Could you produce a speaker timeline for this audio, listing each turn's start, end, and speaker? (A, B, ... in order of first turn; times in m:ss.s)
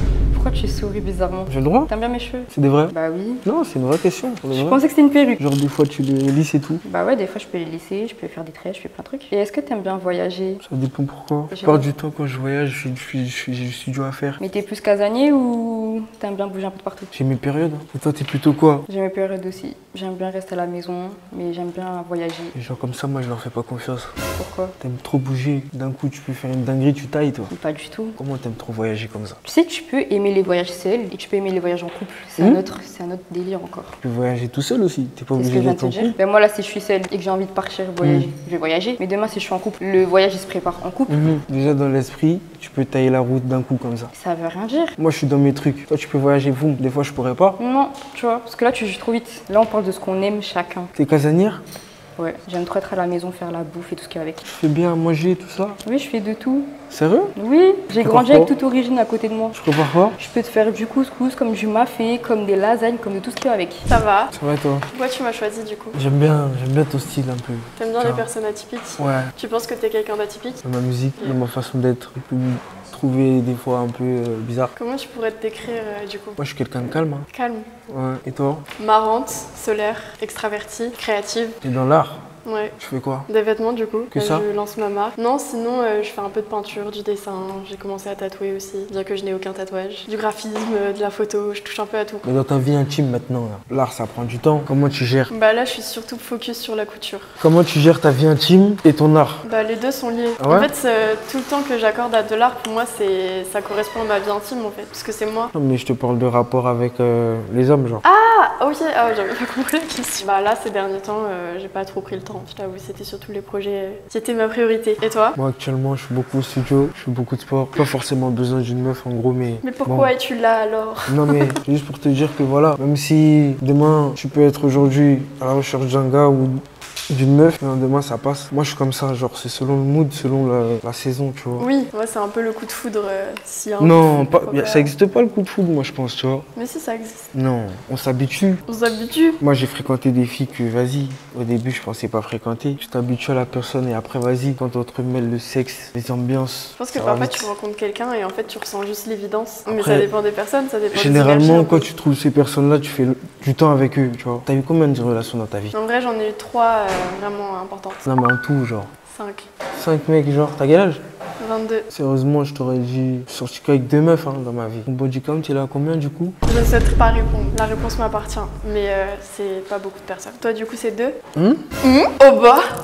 0:00.3-0:03.4 A
0:01.5-0:01.9 B
0:02.5-0:02.9 B
0:03.4-0:04.8 B
0:04.5-0:05.4 A
0:05.4-0:06.8 B
0:06.8-0:10.6 A
0:10.6-0:14.4 B
0:11.5-0:11.9 A
0:14.4-0:17.1 A
0:17.1-0:18.9 B
0:18.9-0:22.5 A
0:22.5-0:24.1 B
0:24.4-0:24.7 A
0:24.8-0:27.5 B
0:27.5-0:28.2 A
0:28.2-0:29.4 B
0:29.4-0:34.0 A
0:34.0-0:36.2 B
0:35.4-0:41.2 A
0:38.0-0:38.3 B
0:41.1-0:44.1 B
0:44.1-0:45.0 A
0:45.0-0:47.6 B
0:47.6-0:50.9 A
0:50.9-0:51.6 B
0:52.2-0:54.4 A
0:54.4-0:55.8 B
0:55.8-0:56.7 A
0:56.9-0:57.3 B
0:57.4-0:59.6 A
0:58.0-0:58.5 B
0:59.5-1:00.2 B
1:00.2-1:03.8 A
1:03.9-1:04.3 C
1:04.3-1:04.9 B
1:04.9-1:06.0 C
1:05.9-1:08.3 B
1:07.8-1:10.6 C
1:09.0-1:09.3 B
1:10.6-1:14.7 B
1:14.8-1:16.4 C
1:16.4-1:17.3 B
1:17.3-1:17.7 C
1:17.9-1:18.6 B
1:18.8-1:21.6 C
1:21.6-1:22.3 B
1:22.4-1:22.8 C
1:22.8-1:23.3 B
1:23.3-1:32.2 C
1:24.1-1:24.5 B
1:32.2-1:35.3 B
1:35.3-1:37.3 C
1:37.4-1:39.4 B
1:39.4-1:45.5 C
1:40.4-1:40.7 B
1:45.5-1:48.0 B
1:48.0-1:55.4 C
1:55.4-2:00.1 B
1:59.6-2:01.5 C
2:01.1-2:11.7 B
2:11.6-2:14.9 C
2:13.8-2:16.5 B
2:16.6-2:17.3 C
2:17.3-2:18.6 B
2:18.7-2:19.4 C
2:19.4-2:27.5 B
2:26.8-2:31.9 C
2:29.7-2:30.1 B
2:30.9-2:35.8 B
2:35.7-2:38.1 C
2:38.0-2:38.9 B
2:39.1-2:39.5 C
2:39.7-2:41.0 B
2:41.4-2:41.8 C
2:41.9-2:46.4 B
2:46.5-2:51.2 C
2:51.4-2:51.7 B
2:51.8-2:52.7 C